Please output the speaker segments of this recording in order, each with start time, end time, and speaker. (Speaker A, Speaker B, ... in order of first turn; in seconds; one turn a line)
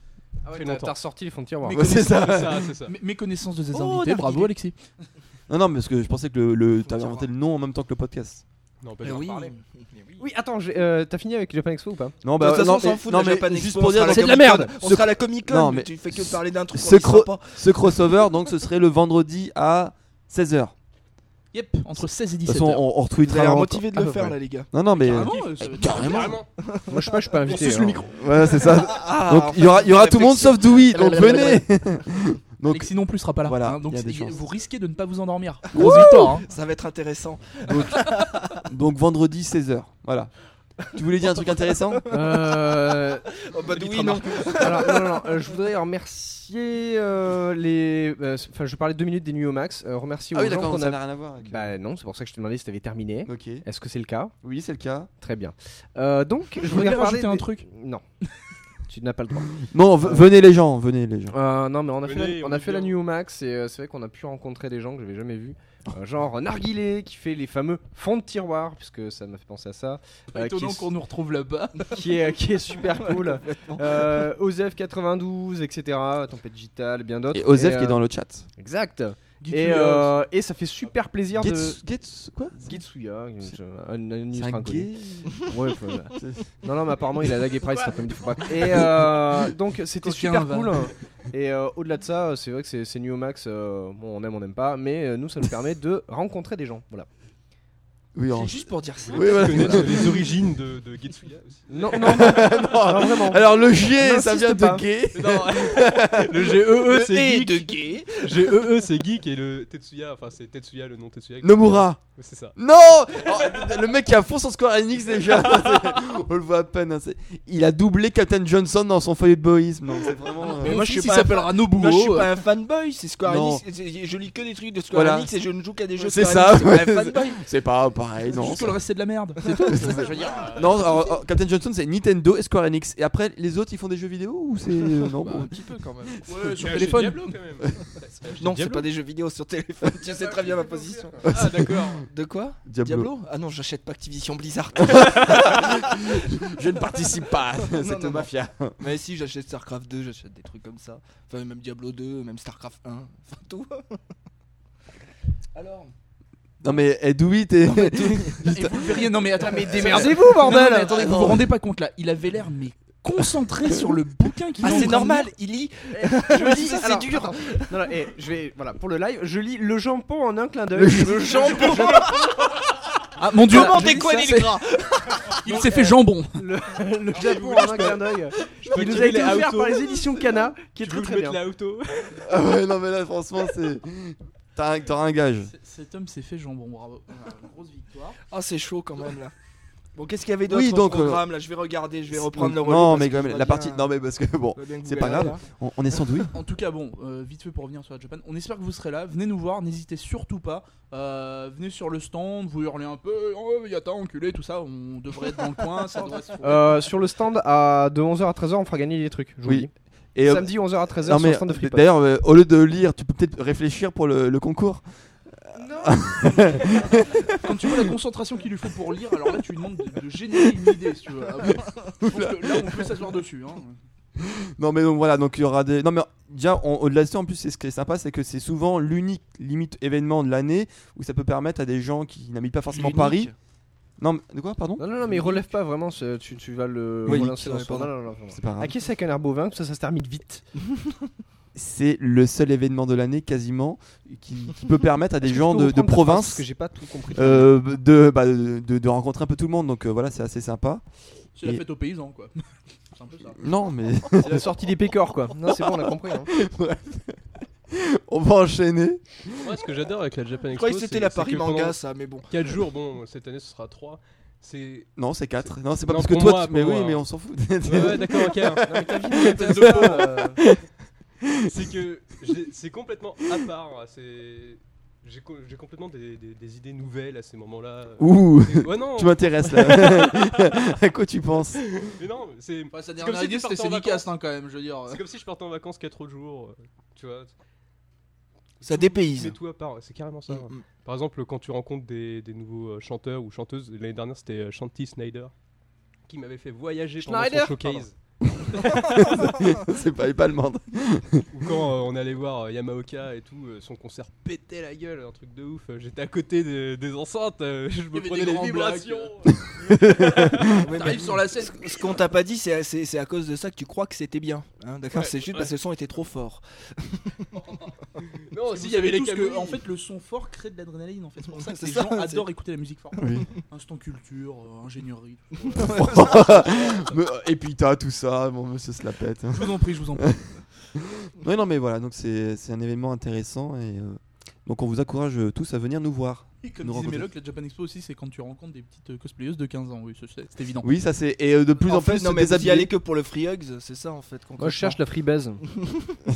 Speaker A: 0.5-1.8
Speaker B: 0.5-1.0
Speaker C: 1.7-2.7
Speaker D: 1.7-4.8
Speaker B: 1.8-2.9
Speaker E: 4.2-4.5
Speaker C: 5.5-8.4
Speaker B: 8.8-9.5
Speaker E: 9.0-10.2
Speaker D: 9.1-9.5
Speaker A: 10.2-12.2
Speaker C: 12.2-20.7
Speaker E: 12.3-18.1
Speaker A: 14.1-14.7
Speaker D: 21.5-22.9
Speaker C: 22.0-24.1
Speaker E: 23.2-24.7
Speaker A: 24.0-24.3
Speaker C: 24.7-26.4
Speaker D: 25.0-26.4
Speaker B: 25.8-26.5
Speaker E: 26.6-31.6
Speaker A: 26.9-28.1
Speaker C: 27.6-32.9
Speaker D: 32.7-36.5
Speaker C: 33.4-34.4
Speaker C: 35.7-36.3
Speaker E: 35.8-38.6
Speaker C: 37.6-40.3
Speaker C: 40.9-42.0
Speaker E: 42.0-42.8
Speaker A: 42.1-54.4
Speaker E: 43.3-45.3
Speaker C: 50.3-51.8
Speaker C: 53.3-53.6
Speaker C: 54.4-55.1
Speaker A: 55.2-58.0
Speaker D: 56.6-57.6
Speaker A: 58.9-60.3
Speaker C: 59.6-61.4
Speaker A: 61.3-70.9
Speaker B: 62.0-63.0
Speaker D: 70.3-72.0
Speaker A: 71.9-78.0
Speaker E: 72.9-74.3
Speaker C: 77.3-78.5
Speaker A: 78.6-81.8
Speaker D: 79.4-80.2
Speaker C: 81.3-82.8
Speaker A: 82.5-97.1
Speaker C: 84.3-85.5
Speaker C: 86.2-86.5
Speaker C: 88.5-89.4
Speaker D: 90.0-90.9
Speaker C: 98.2-100.2
Speaker E: 98.3-100.2
Speaker B: 99.1-102.6
Speaker A: 101.7-104.8
Speaker C: 102.0-106.6
Speaker B: 105.1-112.6
Speaker E: 106.8-108.5
Speaker C: 111.4-112.0
Speaker C: 112.6-120.8
Speaker B: 113.2-113.9
Speaker B: 115.4-115.9
Speaker E: 120.5-127.4
Speaker D: 120.5-122.3
Speaker C: 123.2-123.6
Speaker C: 124.9-125.3
Speaker C: 126.0-128.8
Speaker D: 128.3-130.6
Speaker E: 129.6-130.4
Speaker C: 129.7-135.5
Speaker B: 130.0-130.7
Speaker B: 135.2-138.9
Speaker D: 136.3-137.4
Speaker E: 138.4-141.4
Speaker B: 140.1-142.1
Speaker C: 141.2-142.0
Speaker E: 142.0-146.5
Speaker C: 142.7-143.1
Speaker C: 144.8-148.8
Speaker E: 147.6-148.3
Speaker E: 148.8-154.0
Speaker E: 155.6-155.9
Speaker C: 156.6-159.1
Speaker E: 157.7-158.5
Speaker D: 158.5-165.3
Speaker A: 159.4-161.3
Speaker C: 159.7-161.5
Speaker E: 164.6-167.9
Speaker D: 165.9-166.8
Speaker A: 166.3-172.5
Speaker C: 170.7-172.0
Speaker E: 171.3-172.4
Speaker D: 173.2-174.6
Speaker E: 173.5-175.6
Speaker A: 173.5-174.1
Speaker D: 175.4-176.5
Speaker A: 175.5-181.4
Speaker B: 177.1-182.3
Speaker C: 182.2-185.5
Speaker D: 185.5-188.2
Speaker E: 188.3-189.3
Speaker E: 189.9-193.9
Speaker C: 190.5-191.3
Speaker C: 192.1-196.3
Speaker E: 194.6-195.4
Speaker D: 196.3-206.8
Speaker A: 206.4-209.7
Speaker C: 209.4-214.8
Speaker A: 210.2-211.9
Speaker A: 215.5-217.0
Speaker C: 215.5-217.8
Speaker D: 217.4-223.8
Speaker C: 222.0-222.9
Speaker C: 224.2-233.3
Speaker E: 232.7-233.3
Speaker C: 234.0-235.4
Speaker A: 234.8-240.5
Speaker C: 237.1-237.3
Speaker E: 237.1-237.9
Speaker C: 238.3-238.7
Speaker C: 241.6-246.5
Speaker A: 245.2-247.6
Speaker C: 247.1-250.8
Speaker D: 251.3-253.4
Speaker C: 253.3-254.5
Speaker A: 254.2-256.3
Speaker C: 255.4-259.5
Speaker B: 259.4-261.8
Speaker E: 260.5-262.3
Speaker B: 262.3-264.9
Speaker C: 265.0-270.6
Speaker B: 265.9-267.0
Speaker B: 267.6-268.9
Speaker A: 268.7-270.4
Speaker D: 269.2-270.1
Speaker C: 271.2-271.6
Speaker B: 271.4-280.7
Speaker C: 278.0-281.7
Speaker B: 281.6-284.1
Speaker D: 282.7-285.0
Speaker B: 284.9-287.3
Speaker B: 288.6-295.3
Speaker E: 288.6-289.4
Speaker E: 290.3-290.6
Speaker B: 296.1-298.0
Speaker A: 297.0-297.9
Speaker C: 298.4-301.3
Speaker B: 298.5-298.9
Speaker B: 301.3-311.0
Speaker D: 307.9-309.1
Speaker C: 309.9-310.3
Speaker E: 310.5-317.2
Speaker D: 310.7-311.9
Speaker B: 315.0-315.5
Speaker B: 318.3-319.6
Speaker D: 318.5-326.6
Speaker E: 321.3-322.3
Speaker C: 323.0-323.3
Speaker E: 325.6-326.3
Speaker C: 325.6-337.1
Speaker D: 329.3-330.1
Speaker D: 336.4-340.7
Speaker C: 340.6-342.7
Speaker E: 341.6-344.8
Speaker A: 344.4-345.4
Speaker E: 345.5-345.9